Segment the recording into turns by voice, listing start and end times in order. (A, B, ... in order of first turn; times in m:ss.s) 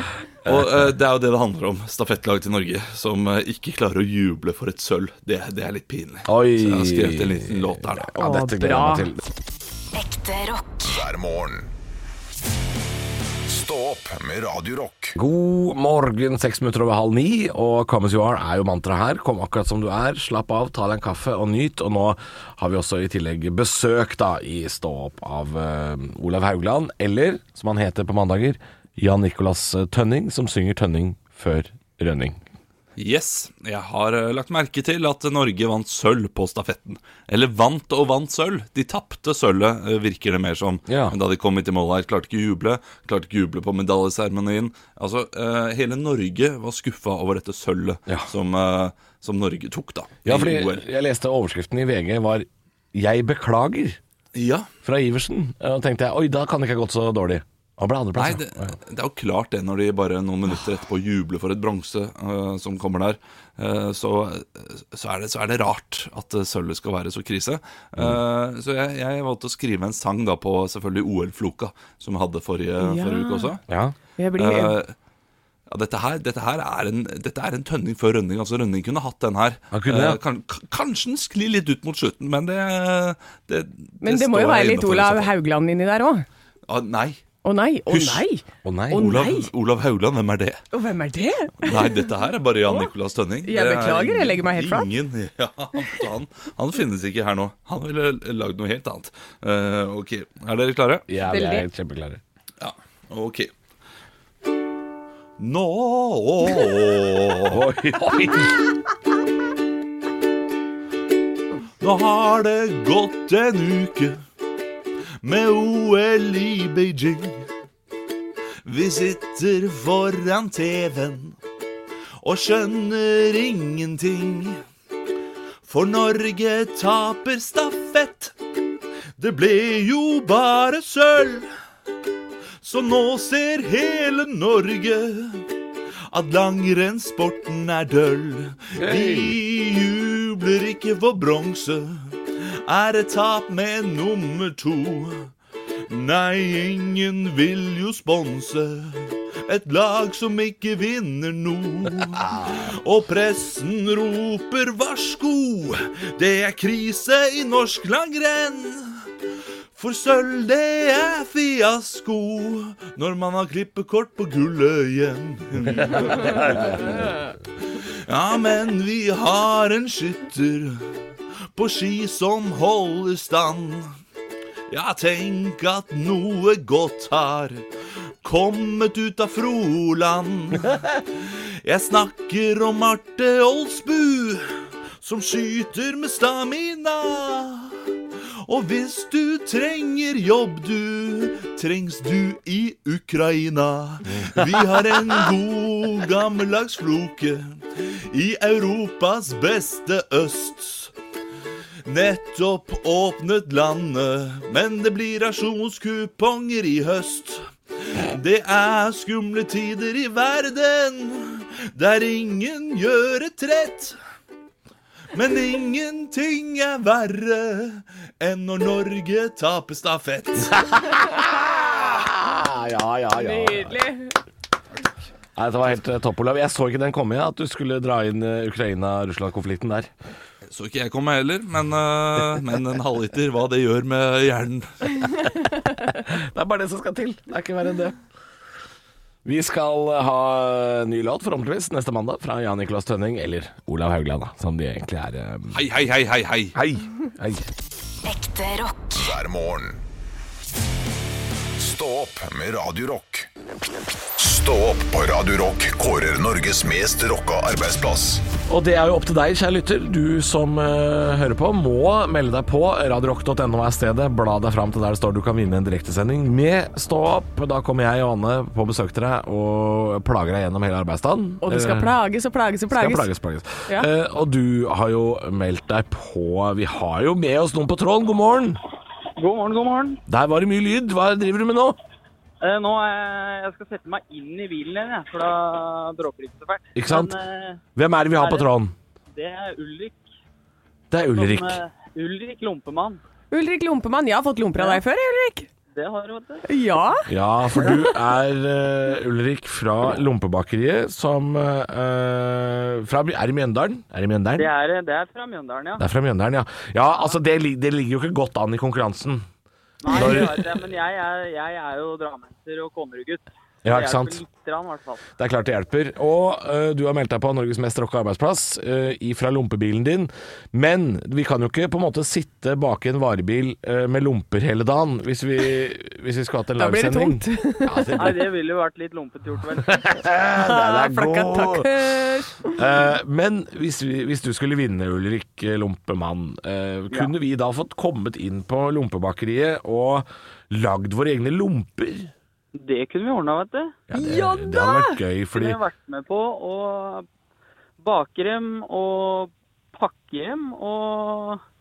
0:00.4-0:08.1 A
0:06.2-0:09.2 B
0:08.1-0:09.1 C
0:09.9-0:10.8 D
0:10.8-0:11.7 E
0:13.5-0:15.2 E
0:15.1-0:32.4 B
0:33.0-0:50.8 A
0:40.9-0:41.2 B
0:50.2-0:54.0 B
0:54.3-0:54.7 A
0:54.8-0:58.7 B
0:58.2-1:13.6 A
1:12.8-1:13.5 C
1:13.7-1:13.9 B
1:14.2-1:14.8 C
1:14.4-1:14.9 A
1:15.7-1:25.3 A
1:19.7-1:20.2 B
1:24.0-1:26.2 C
1:26.7-1:27.2 A
1:27.4-1:29.5 C
1:27.9-1:29.0 B
1:28.9-1:30.6 A
1:30.7-1:32.0 C
1:31.6-1:41.0 A
1:33.4-1:34.9 C
1:41.1-1:42.2 B
1:41.3-1:41.6 C
1:42.6-1:43.5 A
1:45.4-1:47.6 A
1:47.5-1:48.6 B
1:51.8-1:54.2 A
1:55.2-1:57.4 A
1:58.6-2:01.4 A
2:02.2-2:04.6 A
2:05.6-2:08.3 A
2:09.2-2:11.5 A
2:12.6-2:15.4 A
2:16.1-2:22.1 A
2:18.8-2:19.3 B
2:22.6-2:25.3 A
2:25.9-2:39.0 A
2:39.7-2:47.0 A
2:46.4-2:46.9 B
2:47.8-2:50.8 A
2:51.5-2:53.9 A
2:54.7-2:57.6 A
2:58.2-3:04.5 A
3:05.0-3:07.8 A
3:08.4-3:20.9 A
3:21.8-3:34.0 A
3:35.1-3:40.6 A
3:40.5-3:43.8 B
3:43.1-3:44.1 C
3:45.4-3:49.9 B
3:50.5-3:55.0 A
3:55.9-3:58.0 B
3:59.2-4:05.6 B
4:05.5-4:06.6 A
4:06.5-4:07.5 B
4:08.0-4:09.0 D
4:08.9-4:09.8 E
4:11.5-4:13.3 E
4:14.2-4:18.2 E
4:18.5-4:31.9 B
4:31.4-4:33.1 C
4:32.7-4:38.6 B
4:39.2-4:40.0 F
4:40.1-4:41.8 B
4:42.4-4:47.6 F
4:46.7-4:47.1 B
4:47.8-4:48.7 B
4:48.2-4:48.5 F
4:49.1-4:50.0 F
4:50.9-4:51.6 B
4:51.1-4:53.0 F
4:53.3-4:55.5 C
4:54.6-4:54.8 F
4:55.7-4:56.4 F
4:56.5-4:58.0 C
4:57.0-5:04.5 B
5:04.4-5:05.8 F
5:05.8-5:09.2 B
5:09.8-5:15.0 F
5:09.9-5:10.5 B
5:13.6-5:14.2 B
5:15.2-5:28.2 B
5:26.6-5:27.9 C
5:28.0-5:29.9 F
5:29.6-5:31.7 B
5:30.4-5:32.6 C
5:32.4-5:42.1 B
5:42.5-5:43.8 F
5:43.9-5:45.6 B
5:43.9-5:45.0 C
5:45.3-5:47.0 F
5:47.8-5:51.4 F